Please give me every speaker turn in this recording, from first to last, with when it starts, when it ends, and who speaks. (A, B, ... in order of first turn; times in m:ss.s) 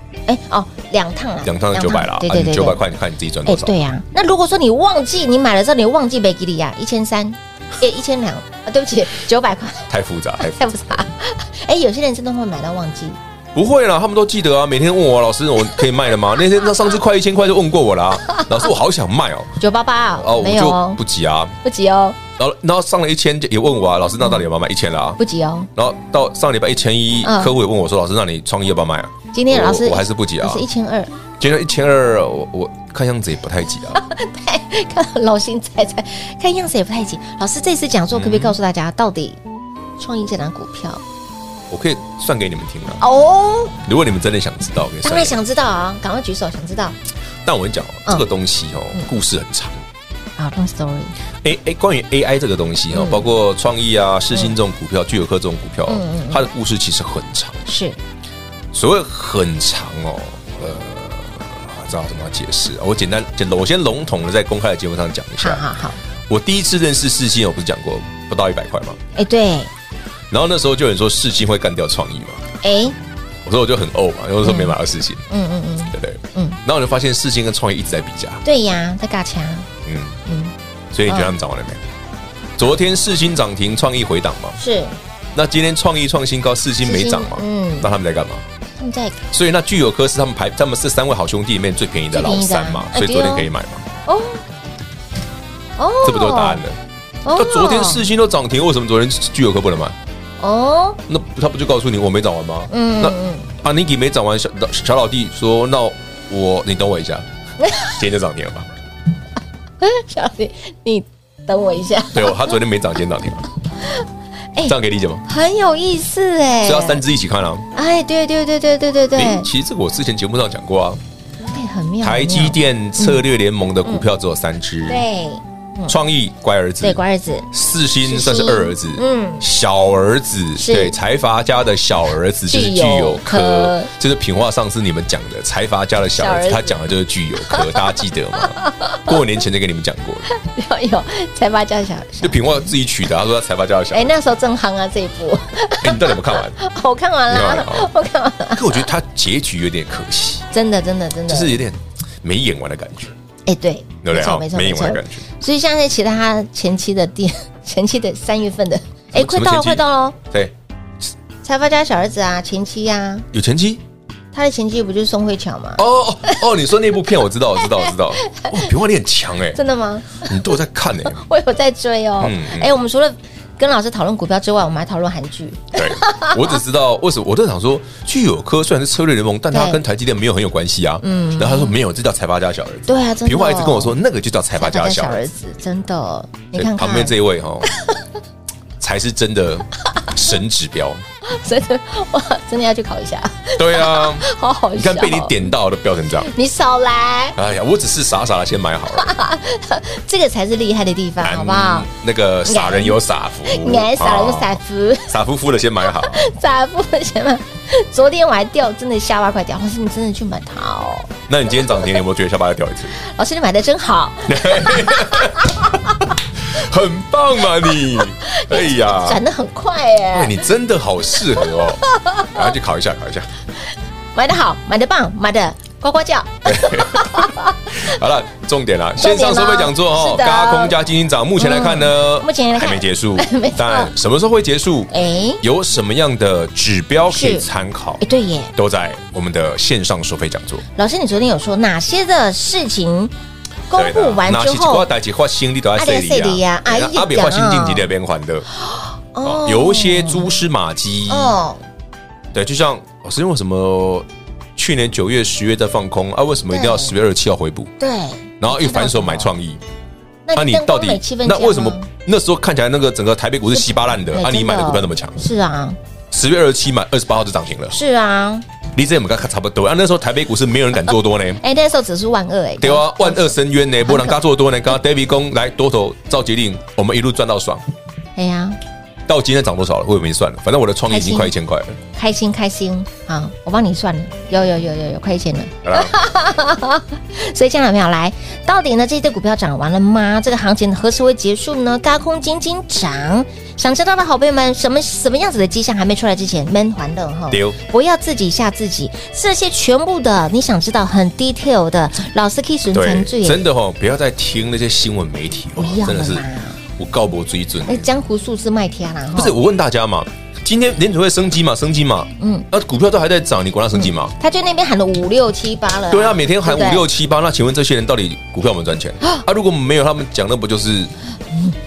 0:00.3-0:02.8 A
0:01.4-0:03.8 B
0:03.4-0:09.9 A
0:09.9-0:10.6 B
0:10.4-0:13.2 A
0:13.5-0:19.6 B
0:19.6-0:21.0 A
0:20.2-0:21.6 B
0:21.6-0:22.2 A
0:22.4-0:25.2 B
0:25.2-0:25.7 A
0:25.8-0:30.6 B
0:27.2-0:27.5 A
0:29.3-0:31.1 A
0:31.4-0:34.0 B
0:33.9-0:39.4 A
0:38.1-0:38.6 B
0:40.0-0:41.0 A
0:41.7-0:43.0 B
0:43.0-0:43.8 A
0:43.8-0:45.4 B
0:45.0-0:47.0 A
0:47.4-0:49.8 B
0:50.4-0:51.2 A
0:51.4-0:57.6 B
0:52.9-0:53.2 A
0:55.9-0:56.4 A
0:57.6-0:58.0 A
0:58.7-1:05.7 B
1:05.4-1:06.0 A
1:06.3-1:09.0 B
1:09.1-1:09.7 A
1:10.3-1:12.4 B
1:12.6-1:13.0 A
1:13.4-1:15.2 B
1:14.4-1:14.7 A
1:15.3-1:16.6 A
1:15.9-1:18.4 B
1:18.4-1:19.7 A
1:19.8-1:20.2 B
1:20.2-1:20.5 A
1:20.9-1:21.8 B
1:21.1-1:21.3 A
1:22.6-1:24.6 B
1:24.6-1:25.0 A
1:25.3-1:28.4 B
1:26.8-1:27.9 A
1:28.8-1:29.2 A
1:29.3-1:33.8 B
1:32.1-1:33.5 A
1:34.0-1:34.4 A
1:35.8-1:36.6 A
1:36.0-1:36.8 B
1:37.2-1:38.1 A
1:37.3-1:40.0 B
1:40.4-1:41.0 A
1:41.1-1:47.2 B
1:42.7-1:43.5 A
1:47.6-1:48.0 A
1:47.9-1:48.7 B
1:49.8-1:52.5 A
1:52.1-1:53.4 B
1:54.6-1:55.2 B
1:55.2-1:57.0 A
1:56.6-1:57.6 B
1:57.7-1:59.5 A
1:59.1-2:01.0 B
2:01.5-2:03.2 A
2:02.0-2:05.0 B
2:04.8-2:06.0 A
2:05.9-2:20.3 B
2:06.8-2:07.5 A
2:08.0-2:09.4 A
2:10.6-2:10.9 A
2:12.5-2:13.9 A
2:16.1-2:16.8 A
2:17.4-2:17.8 A
2:18.5-2:19.1 A
2:20.3-2:22.5 A
2:22.2-2:24.2 B
2:23.9-2:28.9 A
2:25.8-2:26.6 B
2:27.3-2:27.9 B
2:28.5-2:30.4 B
2:30.5-2:31.6 A
2:31.3-2:33.1 B
2:33.4-2:40.2 A
2:34.0-2:35.2 B
2:39.1-2:40.5 B
2:41.4-2:43.3 A
2:43.3-2:43.8 B
2:44.3-2:46.4 A
2:45.8-2:49.6 B
2:47.6-2:48.7 A
2:49.5-2:50.3 A
2:50.2-2:51.2 B
2:51.0-2:56.6 A
2:52.2-2:52.7 B
2:55.7-3:05.2 B
2:59.5-2:59.8 A
3:01.0-3:01.7 A
3:02.9-3:04.0 A
3:04.5-3:07.2 A
3:06.5-3:07.7 B
3:08.8-3:11.0 B
3:11.2-3:15.4 A
3:13.6-3:16.3 B
3:16.2-3:17.4 A
3:17.4-3:19.1 B
3:18.9-3:21.9 A
3:21.2-3:24.6 B
3:22.4-3:25.2 A
3:25.1-3:26.2 B
3:25.9-3:31.1 A
3:31.3-3:33.0 B
3:33.0-3:35.6 A
3:34.2-3:39.2 B
3:38.2-3:40.4 A
3:40.1-3:43.3 B
3:41.4-3:42.3 A
3:44.1-3:47.8 A
3:46.4-3:58.0 B
3:49.0-3:50.8 A
3:51.4-3:53.9 A
3:54.9-3:55.4 A
3:57.1-3:57.4 A
3:58.0-3:58.5 A
3:58.6-4:00.6 B
4:00.7-4:03.1 A
4:03.7-4:04.9 A
4:03.7-4:08.4 B
4:05.8-4:07.9 A
4:08.6-4:10.4 A
4:09.2-4:11.4 B
4:11.1-4:11.6 A
4:12.3-4:17.7 B
4:16.5-4:16.9 A
4:17.8-4:19.3 A
4:18.4-4:19.6 B
4:20.2-4:21.9 A
4:20.3-4:25.2 B
4:23.5-4:25.8 A
4:26.1-4:27.7 B
4:27.7-4:28.4 A
4:28.7-4:31.4 B
4:31.4-4:34.2 A
4:32.6-4:37.6 B
4:38.2-4:38.6 A
4:39.1-4:41.8 B
4:40.9-4:41.3 A
4:41.9-5:03.4 A
4:45.6-4:45.9 B
4:57.3-4:57.6 B
5:02.7-5:07.9 B
5:05.6-5:06.6 A
5:07.6-5:09.4 A
5:09.1-5:14.1 B
5:12.2-5:12.5 A
5:13.8-5:16.9 A
5:15.9-5:20.9 B